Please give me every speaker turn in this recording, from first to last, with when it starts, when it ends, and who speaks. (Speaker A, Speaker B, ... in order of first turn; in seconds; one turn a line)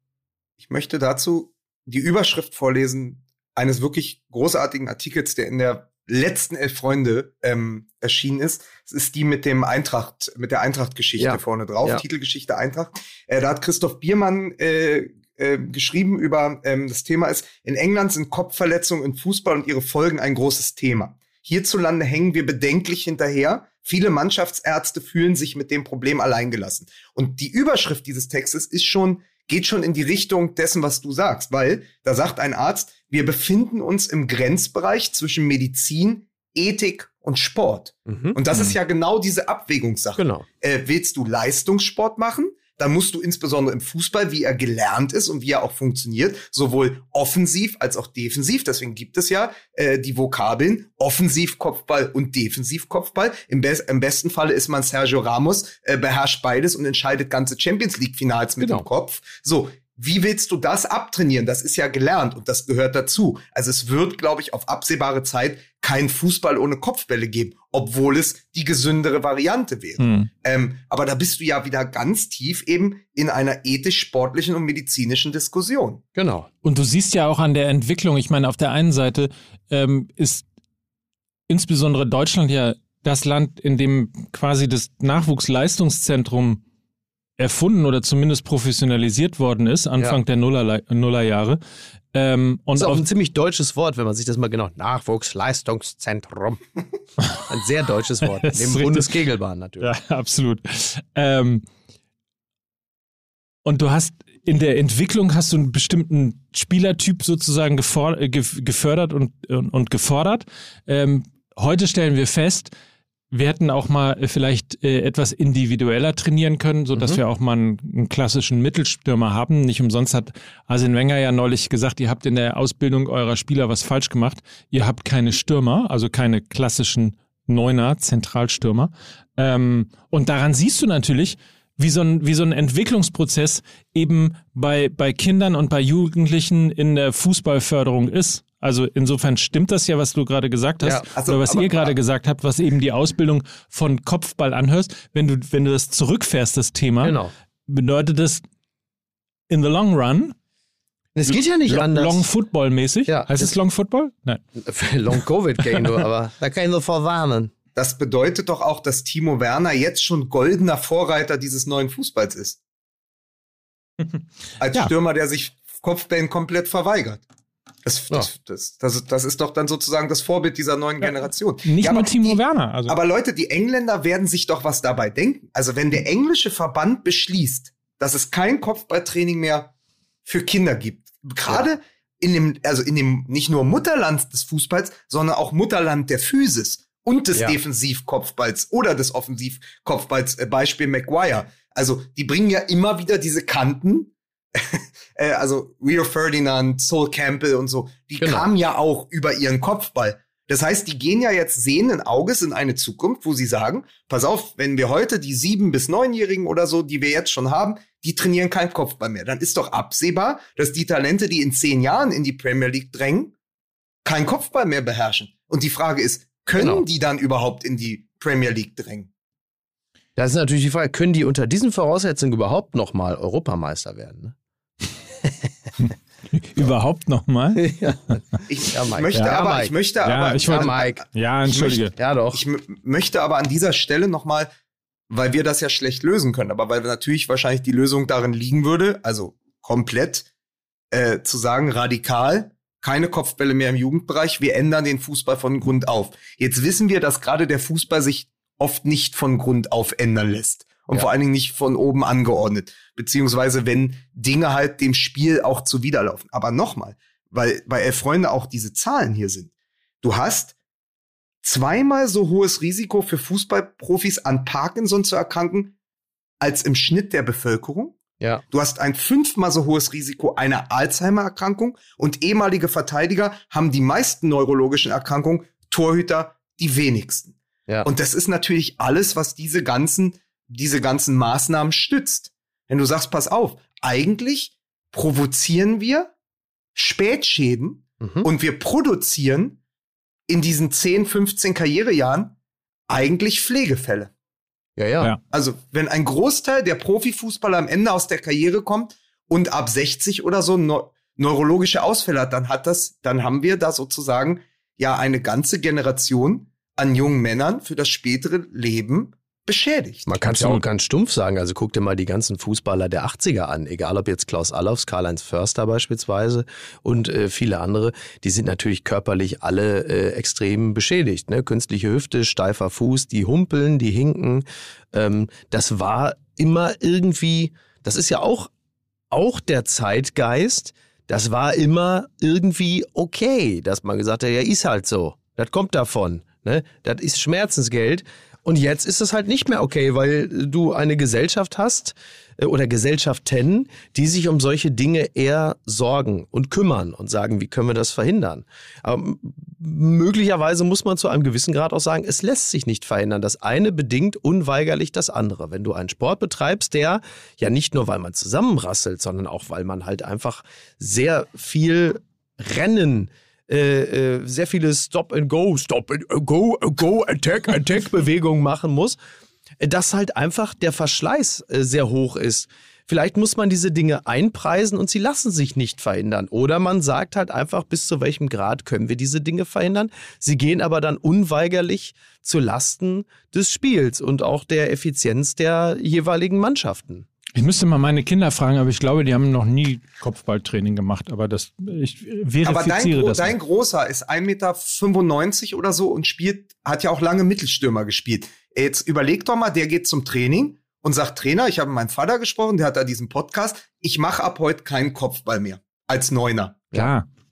Speaker A: 0.6-76.0
Speaker B: 11.2-12.0
Speaker B: 38.1-38.8
Speaker B: 40.2-40.5
Speaker B: 58.6-58.9
Speaker C: 70.0-70.3
Speaker B: 76.2-76.5
Speaker C: 76.6-80.5
Speaker C: 81.5-86.6
Speaker C: 87.4-91.6
Speaker C: 92.1-93.0
Speaker B: 92.8-96.6
Speaker B: 97.4-99.9
Speaker C: 98.4-99.1
Speaker C: 99.8-101.7
Speaker C: 103.7-112.7
Speaker C: 113.3-148.4
Speaker B: 116.9-117.2
Speaker A: 141.1-142.0
Speaker B: 147.0-147.3
Speaker C: 149.5-150.3
Speaker B: 151.2-152.3
Speaker C: 151.3-154.4
Speaker B: 153.1-153.6
Speaker B: 154.6-157.5
Speaker A: 157.8-162.6
Speaker A: 164.6-167.2
Speaker A: 167.8-179.7
Speaker C: 171.0-173.0
Speaker A: 180.2-213.3
Speaker B: 198.2-198.5
Speaker A: 214.1-219.1
Speaker B: 216.6-216.8
Speaker B: 220.2-224.4
Speaker B: 225.2-225.5
Speaker C: 225.8-227.7
Speaker B: 227.6-229.7
Speaker A: 228.5-231.8
Speaker C: 230.1-231.9
Speaker B: 230.5-231.1
Speaker B: 231.6-232.4
Speaker A: 232.3-234.5
Speaker A: 235.1-240.3
Speaker A: 240.9-259.5
Speaker A: 260.0-260.6
Speaker A: 261.4-265.8
Speaker A: 266.4-286.1
Speaker A: 286.8-289.6
Speaker B: 288.0-288.3
Speaker A: 290.3-292.4
Speaker A: 292.9-294.1
Speaker B: 294.8-295.1
Speaker A: 295.3-310.1
Speaker B: 310.1-328.5
Speaker C: 310.2-310.6
Speaker B: 329.1-369.0
Speaker B: 369.6-387.1
Speaker C: 387.4-393.3
Speaker A: 392.4-406.7
Speaker C: 406.7-407.1